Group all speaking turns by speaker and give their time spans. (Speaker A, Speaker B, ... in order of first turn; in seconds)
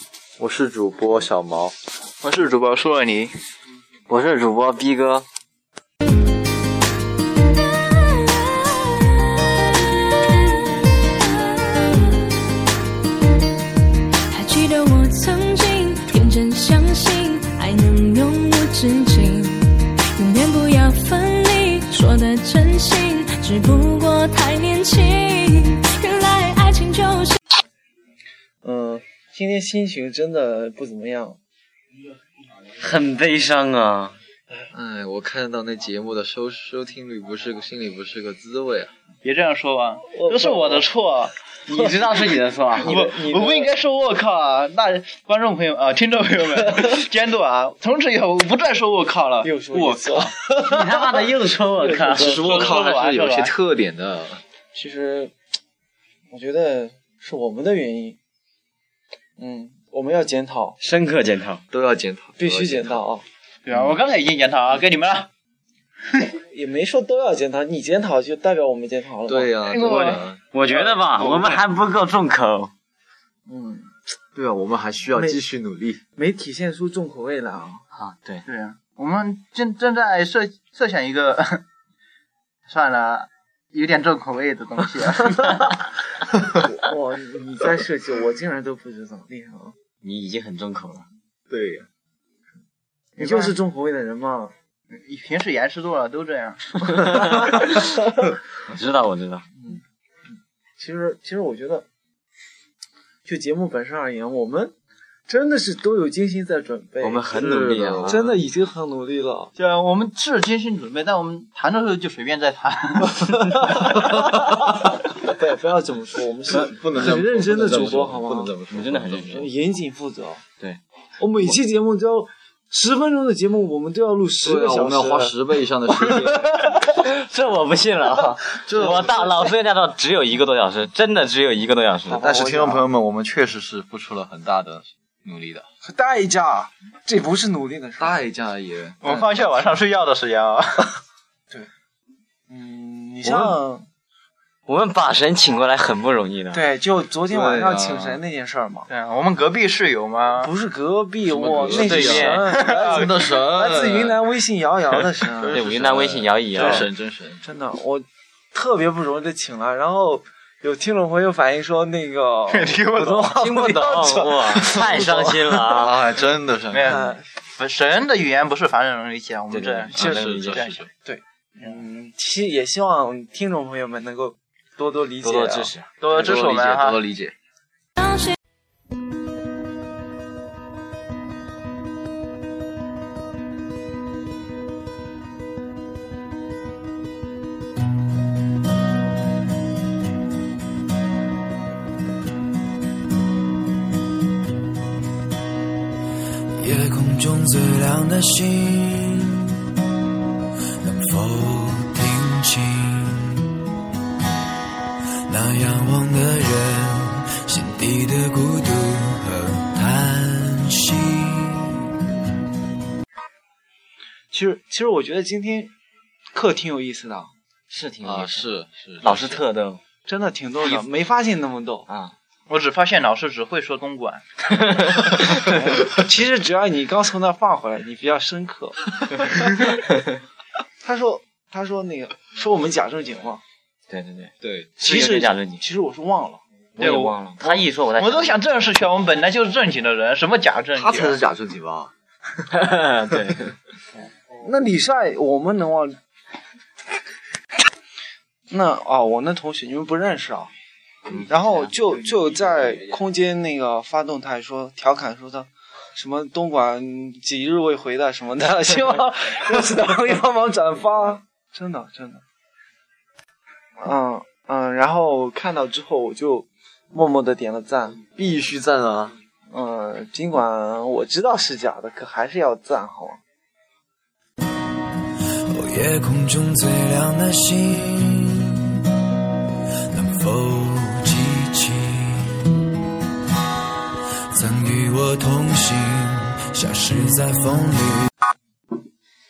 Speaker A: 0.4-1.7, 34.7-38.9, 52.1-54.4, 61.7-63.0, 69.3-70.4, 74.3-76.0, 91.5-91.9, 107.3-108.3, 116.4-119.5, 124.4-126.8, 128.6-129.5, 132.1-135.6, 138.0-139.3, 147.3-148.2, 151.2-154.2, 155.4-157.4, 165.7-167.0, 169.9-170.9, 176.1-177.3, 218.0-219.4, 234.4-234.8, 240.7-241.9, 268.1-269.2
Speaker B: 2.2-3.3, 39.2-41.3, 42.8-50.7, 52.2-53.5, 63.6-65.3, 69.6-71.6, 78.5-81.6, 82.7-85.8, 93.2-93.5, 94.9-97.5, 109.6-113.8, 139.0-141.0, 148.9-150.5, 152.2-153.1, 162.5-163.4, 166.7-170.8, 176.0-177.0, 222.5-224.2, 236.8-241.2
Speaker C: 4.1-5.2, 32.8-34.1, 41.7-43.0, 50.5-52.8, 60.8-61.6, 70.5-72.7, 77.9-78.4, 90.0-91.0, 98.7-99.4, 107.0-108.3, 117.6-118.1, 118.7-119.5, 126.9-132.2, 144.7-146.6, 151.7-152.5, 155.5-156.9, 163.3-166.0, 169.5-170.8, 175.2-175.9, 217.7-219.8, 221.9-222.1, 233.9-235.6, 236.8-238.4, 242.5-243.5
Speaker D: 8.6-9.3, 9.9-10.8, 14.3-27.4
Speaker E: 28.6-31.4, 40.1-40.9, 42.7-43.7, 49.4-50.4, 51.8-52.2, 54.7-55.3, 56.3-58.2, 59.4-60.8, 62.4-63.2, 66.4-69.5, 73.5-73.9, 75.1-75.4, 76.2-77.8, 86.5-89.7, 93.2-94.5, 97.2-97.8, 100.8-101.8, 103.2-104.7, 105.3-107.3, 108.0-109.5, 113.5-118.5, 119.3-120.4, 121.2-125.3, 132.1-132.8, 135.8-138.2, 142.5-143.9, 146.5-148.9, 150.4-155.6, 157.4-165.6, 166.9-167.2, 171.0-175.7, 214.3-215.7, 216.3-217.3, 220.1-221.8, 225.1-229.7, 230.8-233.4, 234.8-236.4, 244.4-246.0, 248.5-250.5, 251.2-262.2, 263.8-268.0, 269.5-273.2
Speaker F: 196.6-199.6, 200.8-203.5, 205.3-211.8, 275.5-278.8, 279.9-282.4, 284.3-288.1